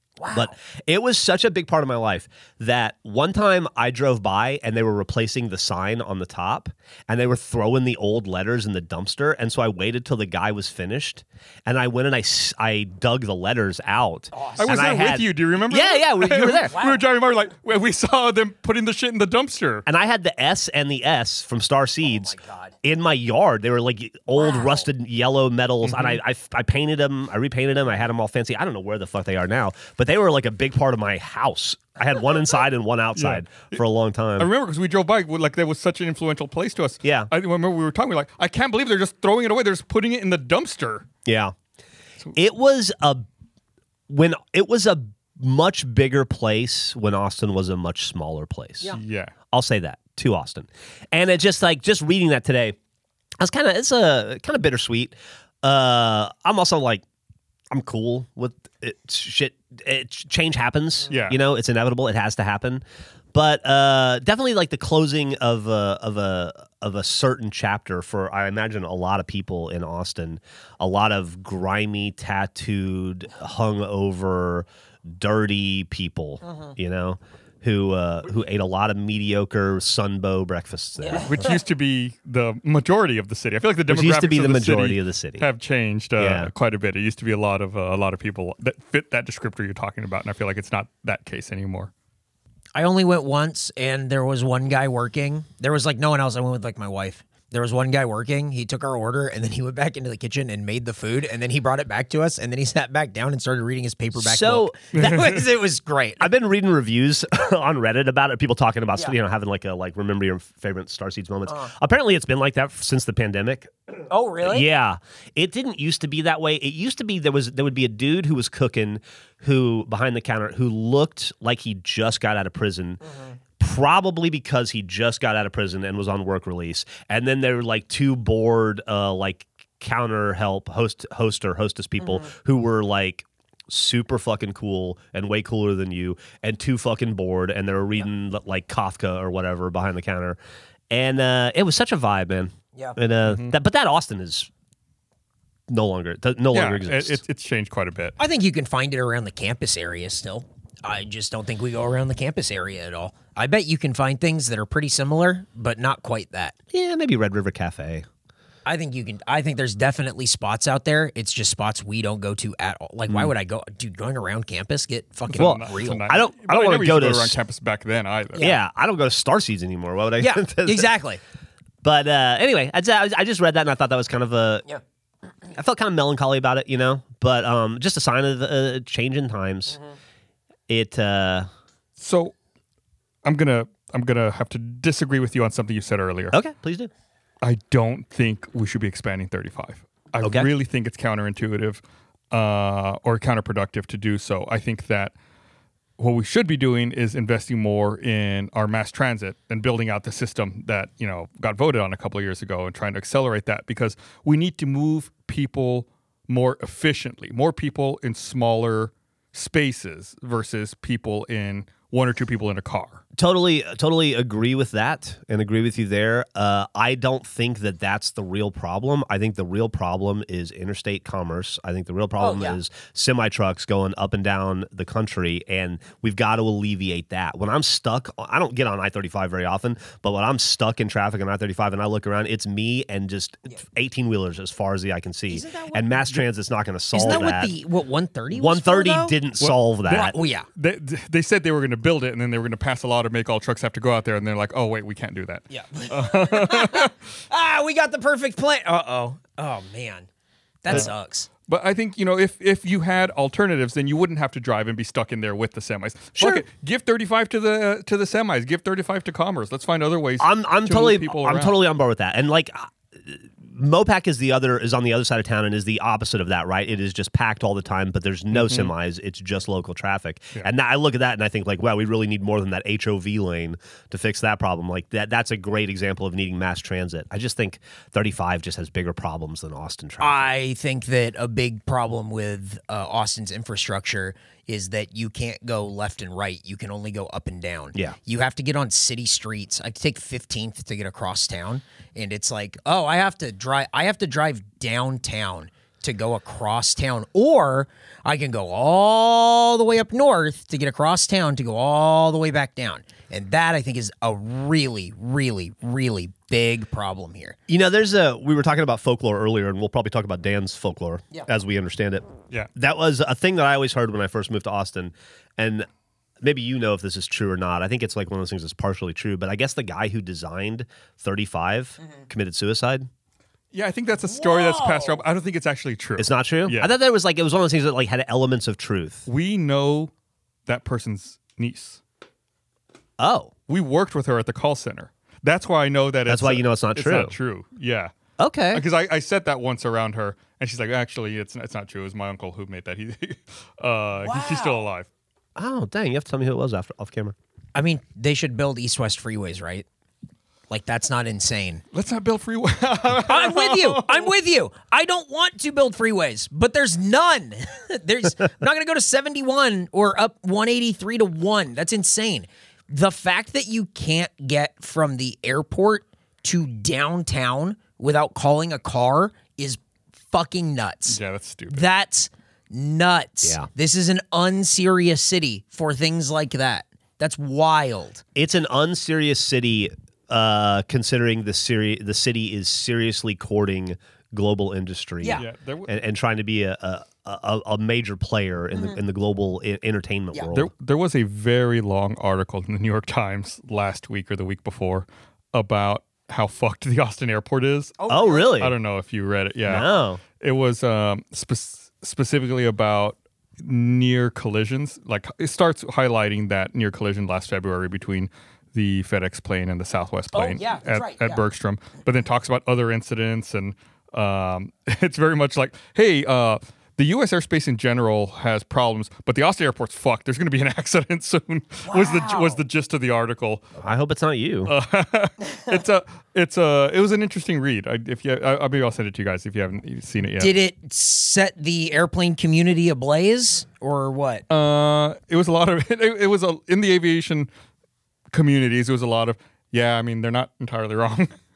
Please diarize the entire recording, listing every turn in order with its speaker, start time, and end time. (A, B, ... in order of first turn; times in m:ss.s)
0:00.2-0:00.5 A
0:00.3-0:16.8 B
0:14.3-0:14.7 A
0:14.6-0:19.8 C
0:16.7-0:17.0 A
0:19.9-0:34.5 B
0:22.1-0:22.7 A
0:24.4-0:24.8 A
0:25.8-0:26.2 C
0:33.2-0:33.8 C
0:34.4-0:41.1 C
0:37.0-0:37.3 B
0:41.2-0:41.6 B
0:42.3-0:43.3 B
0:44.1-0:49.0 B
0:48.9-0:49.3 C
0:49.5-0:52.8 B
0:53.4-0:57.0 B
0:57.7-1:21.3 B
1:01.1-1:01.4 C
1:21.0-1:21.3 A
1:21.2-1:31.9 C
1:23.9-1:25.5 B
1:26.2-1:26.5 B
1:32.8-1:46.3 A
1:44.2-1:45.4 B
1:44.9-1:45.4 C
1:46.2-1:53.7 B
1:54.1-1:54.7 A
1:54.4-2:03.0 B
2:03.0-2:03.4 A
2:03.6-2:20.4 B
2:20.9-2:24.5 B
2:23.3-2:23.5 C
2:25.7-2:27.2 B
2:26.5-2:28.2 C
2:28.2-2:36.6 A
2:36.7-2:38.1 B
2:38.6-2:46.0 A
2:45.3-2:48.5 C
2:45.4-2:47.4 B
2:48.4-2:50.9 B
2:50.2-2:51.2 A
2:51.8-2:54.7 B
2:55.5-2:59.8 B
3:00.7-3:01.5 B
3:02.0-3:02.3 C
3:03.2-3:06.4 C
3:06.3-3:06.9 B
3:07.4-3:15.1 C
3:10.2-3:10.5 B
3:16.0-3:33.0 C
3:33.2-3:57.6 B
3:42.2-3:42.6 A
3:55.3-3:56.2 A
3:56.9-3:59.2 A
3:58.3-4:00.2 B
3:59.4-4:06.9 C
3:59.9-4:00.5 A
4:05.5-4:10.1 A
4:10.6-4:11.3 A
4:11.5-4:21.6 C
4:16.2-4:16.4 B
4:20.2-4:40.3 B
4:28.3-4:28.7 C
4:40.0-5:07.4 A
5:07.5-5:15.7 B
5:16.2-5:22.9 B
5:23.5-5:26.7 C
5:24.1-5:25.0 A
5:26.0-5:29.1 B
5:29.1-5:29.9 C
5:30.5-5:31.8 C
5:33.0-5:33.3 B
5:33.5-5:37.9 C
5:36.1-5:37.1 B
5:38.2-5:38.6 B
5:38.5-5:44.9 C
5:44.0-5:44.6 A
5:45.4-5:47.2 B
5:47.6-5:49.7 A
5:50.5-5:51.6 A
5:51.7-5:54.1 C
5:53.1-6:09.6 A
6:10.1-6:11.0 A
6:10.9-6:11.7 C
6:11.5-6:18.0 A
6:18.2-6:30.5 B
6:25.2-6:25.7 C
6:30.3-6:37.8 C
6:37.8-6:38.4 A
6:37.9-6:38.6 B
6:38.4-6:39.7 C
6:39.5-6:40.0 B
6:40.2-7:03.4 C
6:50.1-6:51.2 A
7:01.7-7:02.4 A
7:03.6-7:04.5 B
7:04.5-7:10.4 C
7:10.2-7:14.2 A
7:14.3-7:17.3 C
7:18.1-7:21.2 C